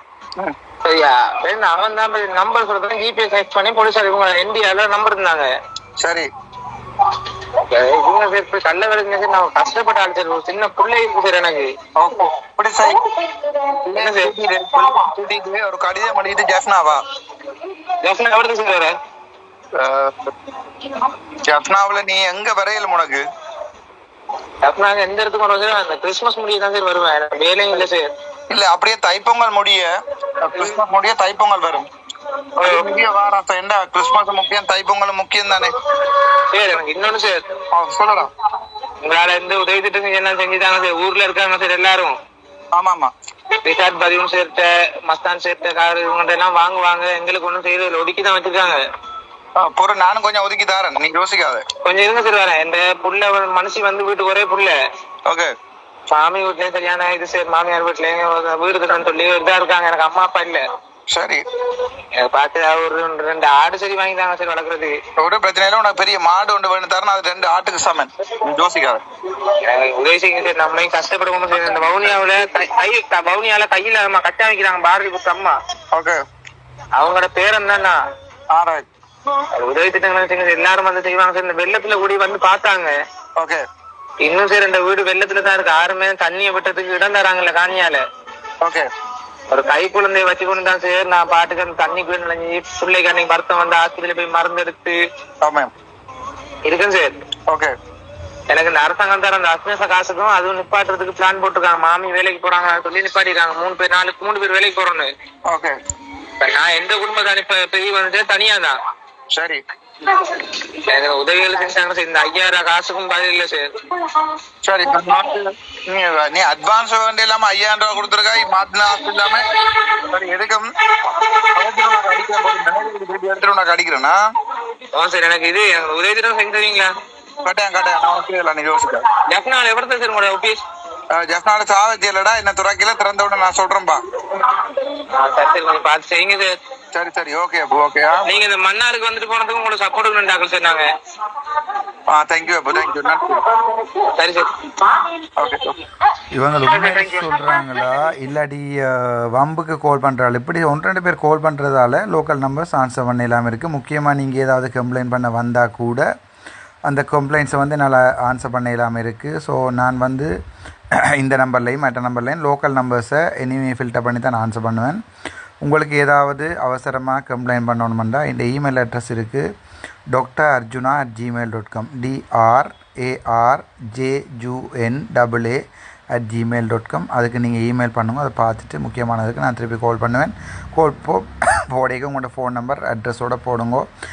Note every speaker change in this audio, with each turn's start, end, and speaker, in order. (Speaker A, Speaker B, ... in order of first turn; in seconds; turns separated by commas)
Speaker A: 0.8-5.5, Speaker B: 6.0-6.3, Speaker A: 7.6-11.7, Speaker B: 12.0-13.1, Speaker A: 13.6-14.3, Speaker B: 13.9-17.0, Speaker A: 18.0-18.9, Speaker B: 19.8-20.3, Speaker B: 21.4-23.2, Speaker A: 24.6-28.1, Speaker B: 28.5-29.9, Speaker B: 30.4-31.9, Speaker A: 32.6-33.0, Speaker B: 32.6-35.8, Speaker A: 36.2-37.4, Speaker B: 37.7-38.3, Speaker A: 39.0-42.2, Speaker B: 42.7-43.1, Speaker A: 43.6-48.8, Speaker B: 49.6-51.6, Speaker A: 51.9-54.8, Speaker A: 56.1-60.6, Speaker B: 61.1-61.4, Speaker A: 62.2-65.0, Speaker B: 65.2-69.0, Speaker A: 69.4-75.6, Speaker B: 75.9-76.2, Speaker A: 77.0-78.0, Speaker B: 78.5-78.9, Speaker A: 79.5-83.0, Speaker B: 83.4-83.6, Speaker A: 84.2-88.0, Speaker B: 88.6-88.9, Speaker A: 89.5-95.0, Speaker B: 95.4-95.7, Speaker A: 96.7-97.2, Speaker B: 97.5-97.7, Speaker A: 98.5-105.1, Speaker B: 105.5-105.8, Speaker A: 106.4-108.8, Speaker B: 109.3-109.6, Speaker A: 110.1-114.2, Speaker B: 114.6-124.2, Speaker A: 124.9-126.9, Speaker B: 127.4-129.1, Speaker A: 129.3-130.6, Speaker B: 131.1-134.0, Speaker A: 134.8-136.6, Speaker B: 136.9-138.3, Speaker A: 138.2-140.9, Speaker B: 142.1-143.4, Speaker A: 143.8-145.1, Speaker B: 145.4-145.8, Speaker C: 146.3-156.1, Speaker A: 146.7-147.2, Speaker C: 156.9-160.3, Speaker C: 161.2-165.0, Speaker C: 165.6-169.4, Speaker C: 170.1-175.6, Speaker C: 176.2-183.9